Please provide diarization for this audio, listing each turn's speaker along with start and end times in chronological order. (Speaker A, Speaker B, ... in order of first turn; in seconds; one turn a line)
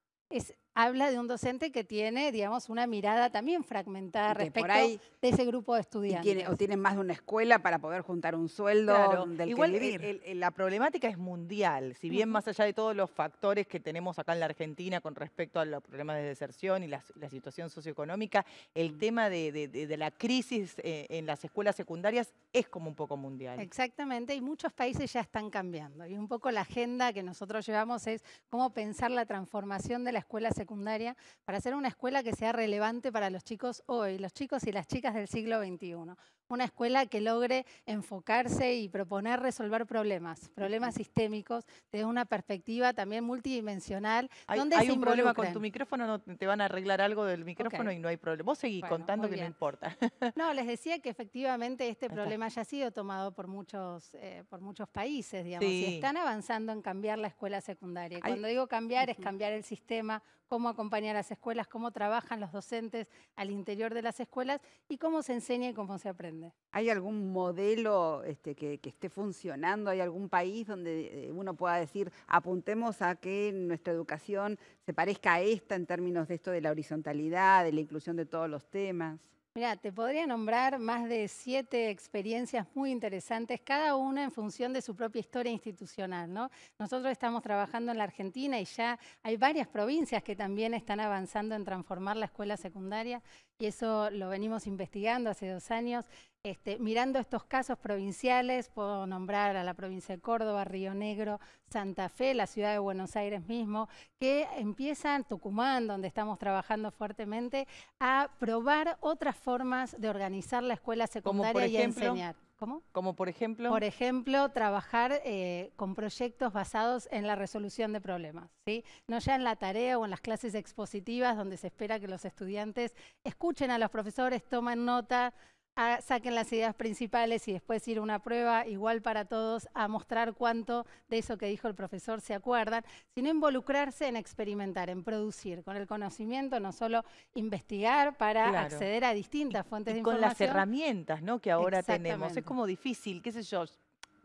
Speaker A: 0.3-6.6
Speaker B: 4.3-5.0
Speaker B: 6.1-10.1
Speaker C: 8.8-23.7
Speaker A: 12.1-12.4
Speaker A: 23.6-45.6
Speaker C: 44.5-50.3
Speaker A: 47.6-47.9
Speaker A: 48.8-49.5
Speaker A: 50.4-66.5
Speaker C: 55.6-56.1
Speaker B: 66.7-79.3
Speaker A: 79.5-112.8
Speaker C: 111.2-112.2
Speaker C: 112.9-113.8
Speaker A: 113.7-140.6
Speaker C: 138.4-138.9
Speaker C: 139.9-143.8
Speaker A: 141.6-142.5